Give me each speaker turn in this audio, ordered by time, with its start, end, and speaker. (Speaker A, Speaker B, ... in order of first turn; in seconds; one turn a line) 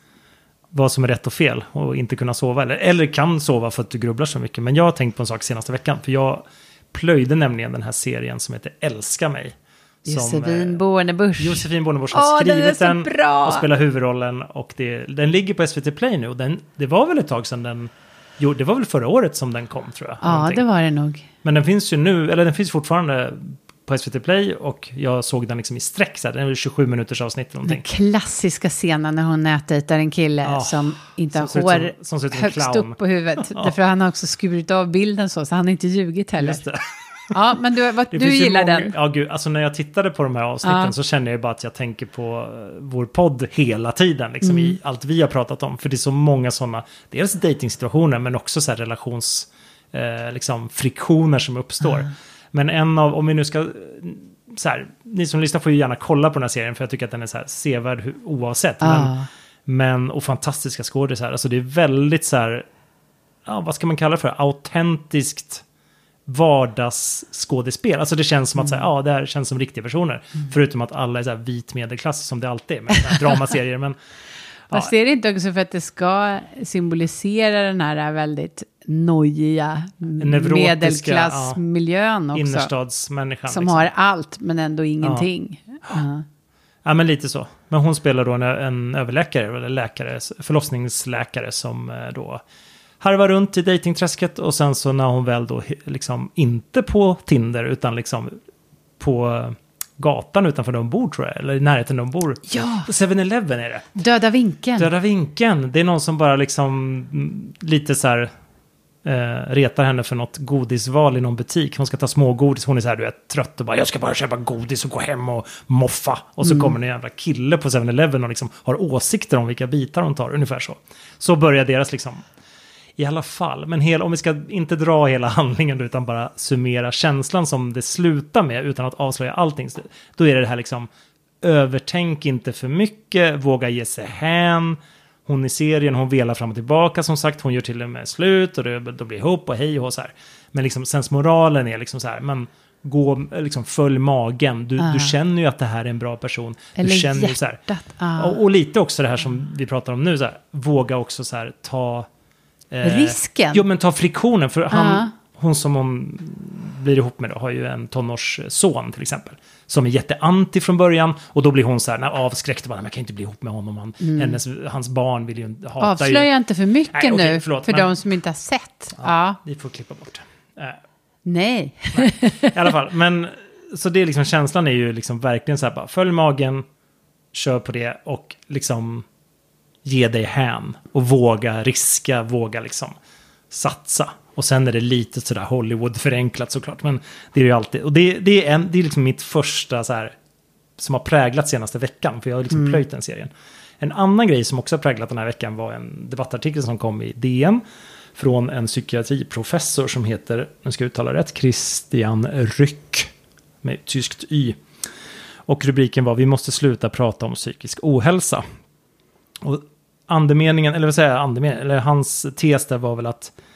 Speaker A: 0.7-10.8
Speaker B: 10.1-13.7
Speaker A: 11.4-20.6
Speaker B: 20.2-21.3
Speaker A: 21.4-27.8
Speaker B: 27.7-36.6
Speaker A: 30.4-33.7
Speaker A: 36.4-36.8
Speaker B: 37.3-39.0
Speaker A: 38.1-59.1
Speaker B: 40.6-40.9
Speaker B: 44.4-44.8
Speaker B: 58.8-59.3
Speaker A: 59.7-62.7
Speaker A: 63.5-65.6
Speaker A: 66.3-74.0
Speaker B: 68.6-68.8
Speaker B: 73.0-73.3
Speaker B: 74.7-82.7
Speaker A: 80.2-81.6
Speaker A: 82.3-83.9
Speaker B: 83.5-86.2
Speaker A: 85.0-85.3
Speaker A: 86.8-92.4
Speaker A: 93.0-98.4
Speaker A: 99.0-104.0
Speaker B: 102.5-102.9
Speaker B: 104.0-104.9
Speaker A: 104.8-108.3
Speaker A: 109.0-122.2
Speaker B: 116.5-116.7
Speaker A: 123.0-130.9
Speaker A: 131.4-147.6
Speaker B: 144.8-145.1
Speaker B: 146.8-148.4
Speaker A: 148.2-152.1
Speaker A: 152.7-166.3
Speaker B: 152.8-153.6
Speaker B: 154.7-155.1
Speaker B: 164.0-164.4
Speaker B: 165.8-169.4
Speaker A: 166.9-167.9
Speaker A: 169.0-170.8
Speaker B: 171.2-172.6
Speaker A: 171.9-176.6
Speaker A: 177.3-179.1
Speaker A: 179.8-182.9
Speaker A: 183.5-190.2
Speaker A: 190.8-197.6
Speaker B: 192.5-192.8
Speaker A: 198.2-203.1
Speaker A: 203.6-204.6
Speaker A: 205.5-208.4
Speaker A: 209.4-213.3